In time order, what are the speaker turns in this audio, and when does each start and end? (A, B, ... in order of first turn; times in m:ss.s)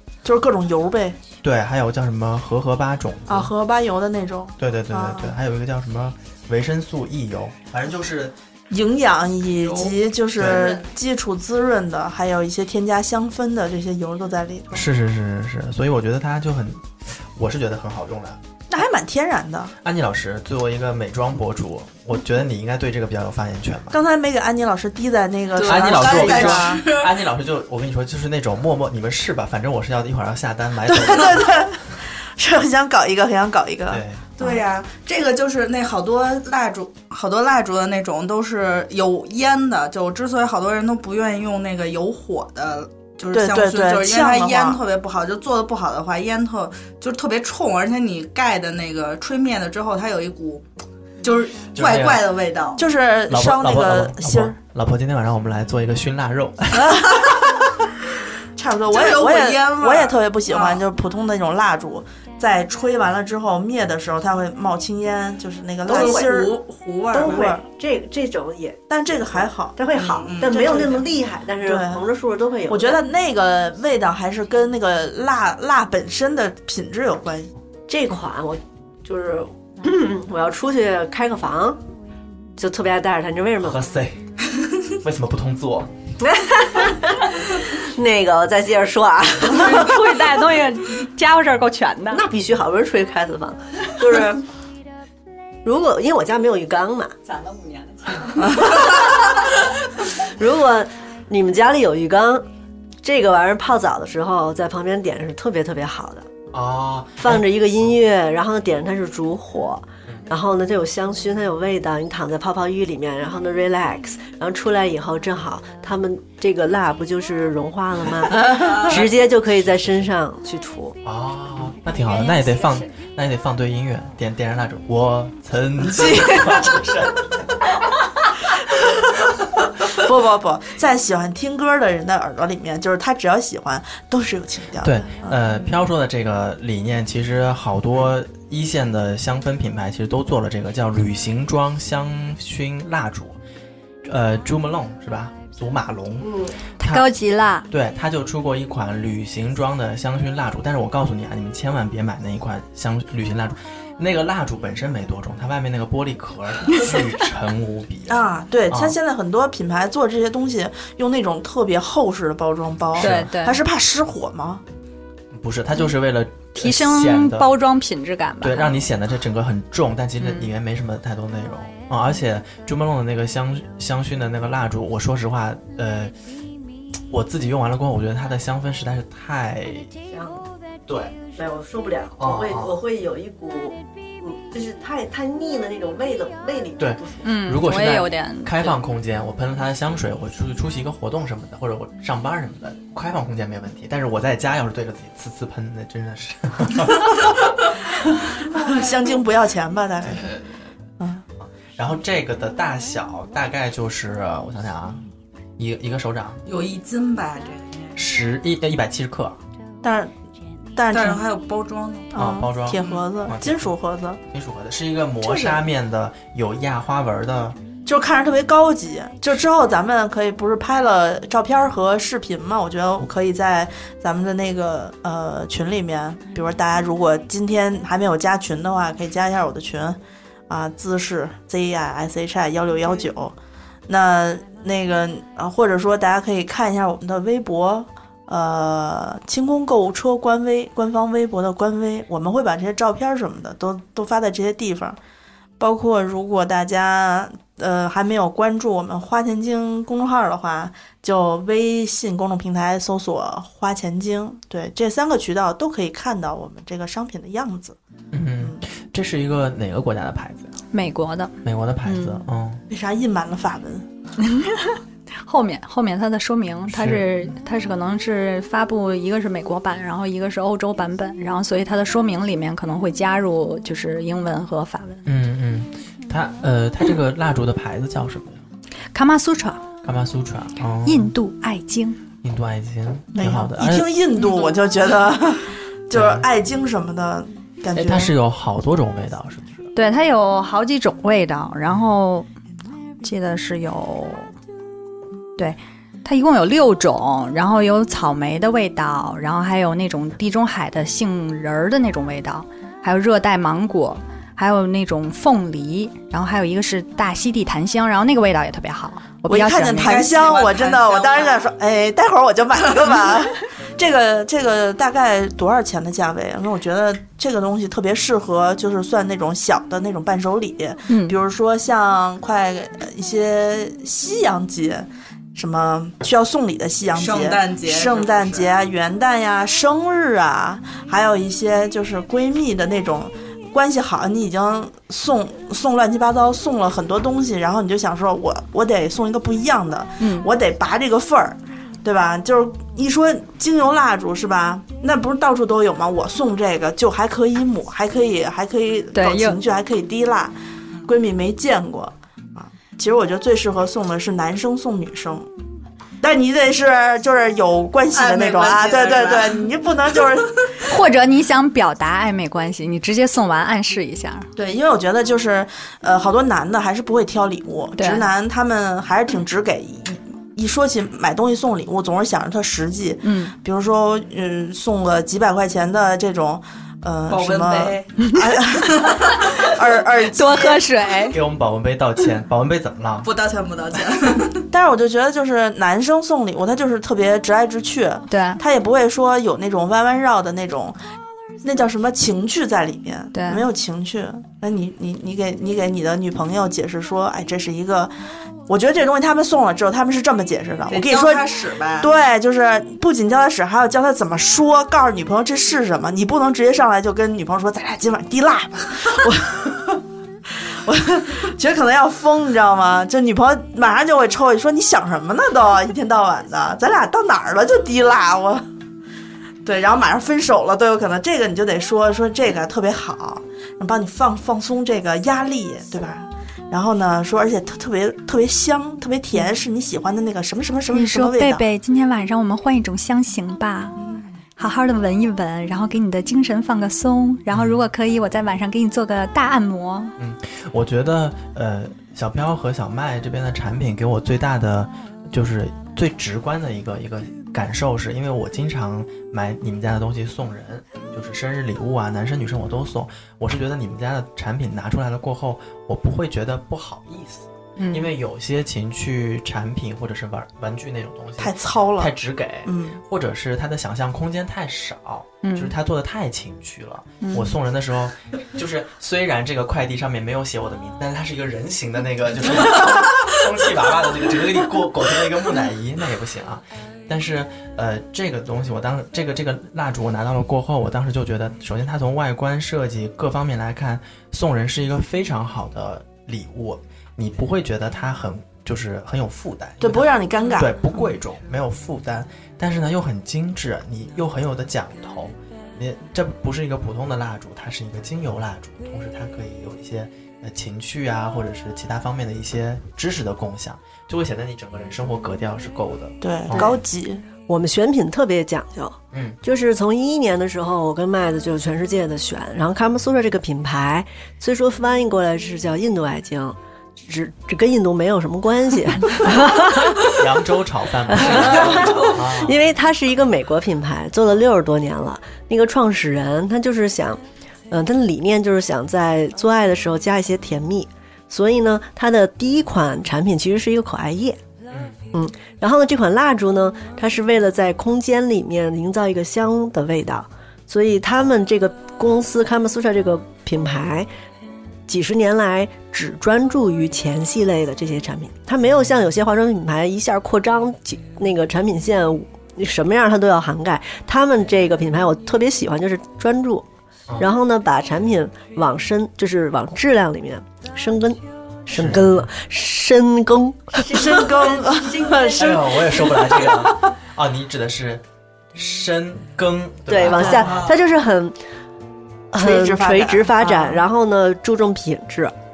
0:00.2-0:01.2 A
0:01.4-0:03.5 B
0:03.3-0:05.4 A
0:04.6-0:08.3 B
0:08.7-0:14.9 A
0:09.6-0:10.0 C
0:10.4-0:10.8 B
0:14.7-0:18.4 B
0:18.7-0:19.7 A
0:19.8-0:24.0 B
0:23.9-0:26.8 A
0:25.6-0:27.2 C
0:25.6-0:31.6 B
0:30.9-0:34.6 A
0:33.9-0:34.3 B
0:34.4-0:50.6 C
0:43.3-0:44.8 A
0:51.2-0:52.8 C
0:51.8-0:52.3 B
0:52.8-0:54.6 A
0:53.3-0:57.3 B
0:56.7-0:57.3 A
0:58.6-1:06.6 A
0:58.9-1:00.8 C
1:05.9-1:06.5 D
1:05.9-1:07.5 C
1:07.1-1:08.8 D
1:07.2-1:07.6 A
1:08.9-1:09.8 A
1:09.3-1:13.0 D
1:10.0-1:11.0 C
1:10.4-1:11.0 A
1:11.6-1:12.0 A
1:12.7-1:17.5 A
1:17.9-1:21.8 D
1:22.6-1:23.8 D
1:23.6-1:24.2 B
1:24.9-1:25.9 B
1:26.2-1:30.1 D
1:29.4-1:32.2 E
1:32.1-1:34.4 D
1:35.6-1:37.2 D
1:37.3-1:38.6 E
1:38.5-1:39.6 D
1:40.1-1:42.5 D
1:43.0-1:46.3 D
1:46.5-1:47.5 B
1:47.2-2:01.0 D
1:58.5-1:59.9 B
2:01.0-2:07.7 B
2:01.9-2:02.9 E
2:06.0-2:06.7 A
2:09.8-2:15.4 A
2:14.8-2:23.4 B
2:24.0-2:27.1 B
2:26.2-2:26.6 D
2:26.8-2:27.7 E
2:27.7-2:39.0 B
2:38.1-2:44.6 A
2:43.0-2:43.3 B
2:43.0-2:43.6 E
2:45.3-2:47.5 B
2:46.6-2:48.7 E
2:48.4-2:56.1 B
2:50.2-2:50.5 E
2:57.1-2:59.9 B
3:00.1-3:00.5 D
3:00.9-3:01.2 B
3:01.4-3:07.2 D
3:02.2-3:02.8 B
3:06.8-3:17.7 B
3:07.2-3:08.8 E
3:18.5-3:20.3 A
3:20.1-3:20.5 B
3:21.4-3:25.0 B
3:25.6-3:26.4 B
3:26.4-3:28.0 C
3:28.0-3:29.4 B
3:29.8-3:30.1 A
3:30.8-3:31.2 A
3:30.9-3:32.1 C
3:32.1-3:34.2 A
3:32.2-3:33.7 B
3:34.3-3:37.6 B
3:35.2-3:35.6 A
3:37.9-3:53.4 A
3:53.9-4:05.0 A
4:05.6-4:17.8 A
4:18.1-4:20.6 B
4:20.7-4:22.2 E
4:21.4-4:22.6 B
4:22.7-4:23.9 A
4:24.2-4:35.0 E
4:26.7-4:27.1 B
4:35.1-4:38.4 B
4:38.9-4:39.6 E
4:39.8-4:41.1 B
4:40.8-4:42.0 E
4:42.2-4:43.9 B
4:43.2-4:48.1 A
4:45.9-4:46.3 B
4:47.7-4:49.7 B
4:49.8-4:52.3 E
4:53.0-4:54.3 E
4:55.4-5:10.1 E
5:09.3-5:50.3 A
5:09.8-5:11.5 C
5:20.9-5:21.2 E
5:26.9-5:28.5 C
5:40.0-5:40.3 E
5:48.9-5:49.4 E
5:50.9-5:55.3 A
5:56.0-6:00.5 A
5:57.9-5:59.5 C
6:00.6-6:04.3 E
6:04.4-6:20.7 A
6:07.8-6:08.1 E
6:13.0-6:13.3 E
6:17.1-6:19.4 C
6:18.0-6:18.3 E
6:20.1-6:21.2 E
6:21.1-6:23.1 B
6:23.0-6:24.5 C
6:24.5-6:30.8 A
6:28.1-6:28.4 E
6:31.4-6:37.9 A
6:33.1-6:33.4 E
6:38.5-6:58.4 A
6:40.7-6:41.9 C
6:59.4-7:11.4 A
7:10.7-7:13.8 E
7:13.8-7:14.1 A
7:14.4-7:20.0 E
7:17.3-7:17.6 B
7:20.0-8:26.6 B
7:37.6-7:37.9 E
7:41.2-7:41.9 A
7:42.5-7:42.8 A
7:45.2-7:45.5 E
7:47.0-7:47.3 E
8:09.6-8:10.8 A
8:26.0-8:27.0 A
8:27.3-8:40.1 D
8:28.9-8:29.2 B
8:39.8-8:42.4 B
8:40.9-8:54.2 D
8:41.5-8:42.0 C
8:54.5-8:54.8 B
8:54.9-9:03.9 D
9:04.7-9:16.5 D
9:17.0-9:25.4 D
9:21.5-9:22.1 B
9:23.7-9:26.6 A
9:25.1-9:27.8 B
9:28.4-9:30.5 B
9:29.7-9:31.2 D
9:30.0-9:30.5 C
9:32.1-9:35.1 D
9:32.2-9:33.6 A